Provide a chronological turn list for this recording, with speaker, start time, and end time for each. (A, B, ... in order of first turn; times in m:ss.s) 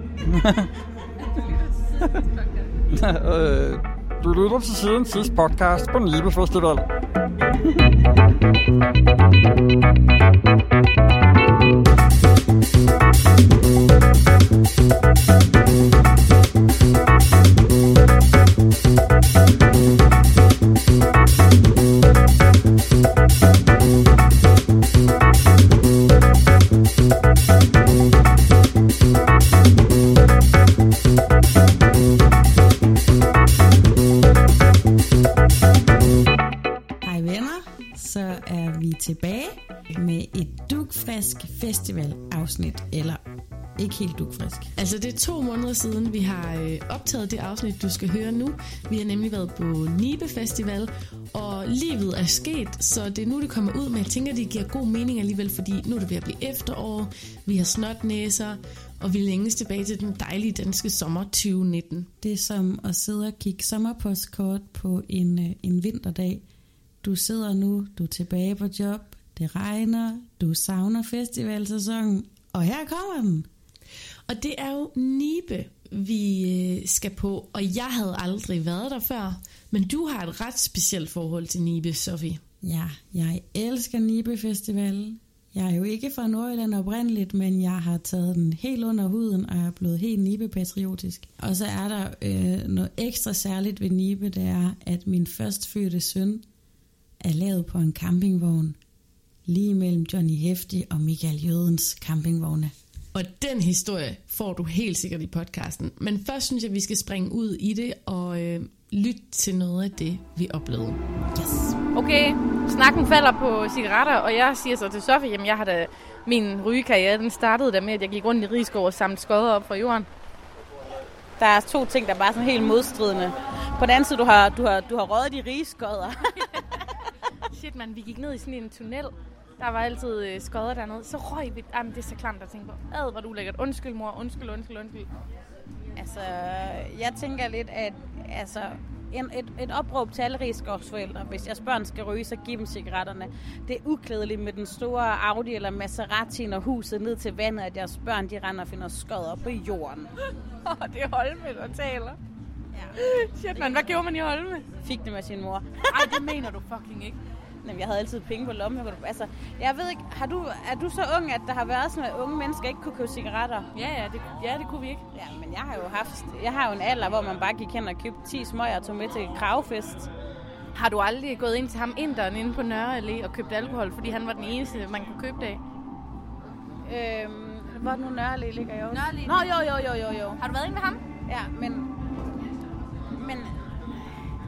0:00.2-0:00.7 A
0:02.9-0:06.8 A
0:37.0-0:43.2 B
0:43.8-0:44.7 B
0:44.8-1:02.1 C
1:02.2-1:06.4 B
1:07.0-1:13.5 B
1:14.3-1:22.4 C
1:22.6-1:36.4 B
1:37.2-1:38.8 B
1:39.4-1:42.7 B
1:43.1-1:51.0 C
1:51.3-1:51.8 B
1:51.9-2:00.1 D
2:01.4-2:06.5 E
2:07.5-2:15.1 D
2:16.0-2:30.1 E
2:30.6-2:32.2 D
2:32.9-2:34.7 D
2:33.5-2:33.9 E
2:34.8-2:36.2 E
2:35.9-2:37.2 D
2:37.6-2:43.7 E
2:43.7-2:45.0 D
2:45.1-2:50.1 E
2:50.7-2:55.6 D
2:56.8-3:00.4 E
2:58.9-2:59.5 D
3:00.4-3:01.0 D
3:01.3-3:01.9 E
3:03.2-3:03.5 E